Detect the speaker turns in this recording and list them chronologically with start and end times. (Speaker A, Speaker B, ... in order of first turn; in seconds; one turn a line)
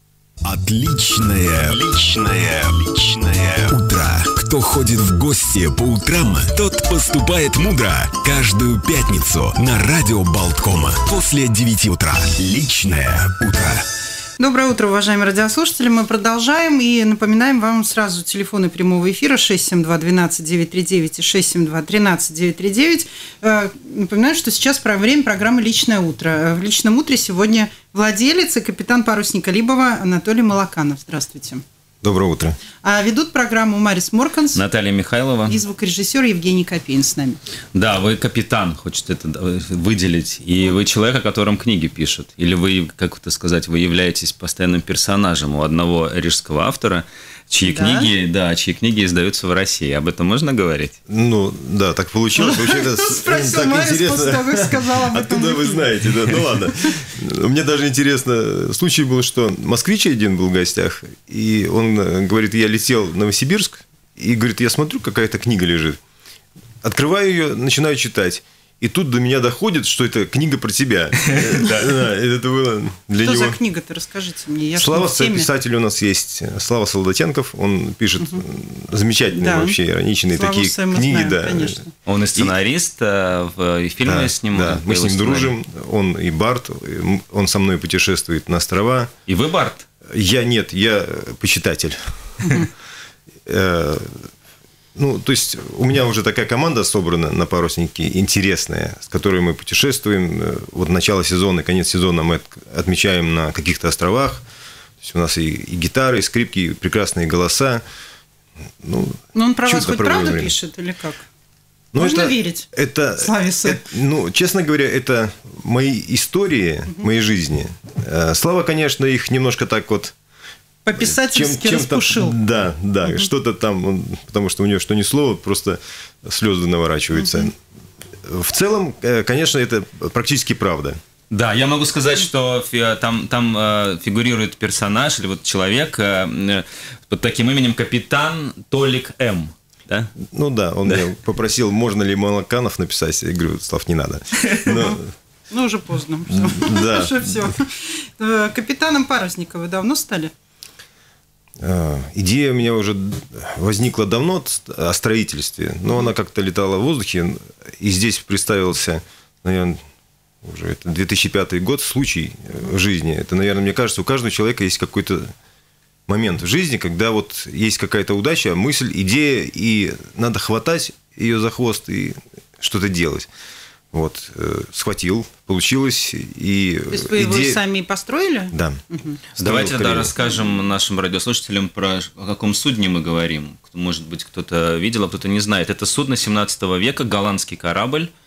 Speaker A: 0.4-13.8
Speaker B: 14.4-31.6
Speaker C: 32.0-32.6
Speaker B: 32.8-34.6
Speaker D: 34.5-35.6
Speaker B: 35.5-37.4
Speaker D: 37.7-51.0
Speaker B: 47.6-48.1
Speaker C: 51.1-66.0
Speaker B: 52.4-55.9
Speaker C: 66.8-73.6
Speaker D: 71.3-71.7
Speaker B: 73.2-75.5
Speaker C: 74.8-81.8
Speaker B: 79.3-79.8
Speaker B: 80.3-81.9
Speaker D: 82.0-85.5
Speaker C: 84.0-89.1
Speaker D: 89.3-89.9
Speaker C: 90.1-92.5
Speaker C: 93.5-94.3
Speaker C: 95.0-104.4
Speaker C: 105.0-107.8
Speaker C: 108.8-110.5
Speaker B: 109.3-111.2
Speaker C: 111.9-120.2
Speaker B: 112.0-113.9
Speaker B: 120.8-122.4
Speaker C: 121.0-127.5
Speaker B: 127.2-127.5
Speaker C: 128.2-131.0
Speaker D: 131.3-140.1
Speaker C: 140.2-145.1
Speaker B: 144.7-145.0
Speaker B: 145.5-150.3
Speaker C: 146.3-147.5
Speaker C: 151.6-159.8
Speaker C: 160.4-165.3
Speaker C: 166.1-173.3
Speaker C: 173.9-177.6
Speaker B: 176.9-179.2
Speaker C: 178.5-178.8
Speaker C: 179.4-180.2
Speaker D: 179.4-188.1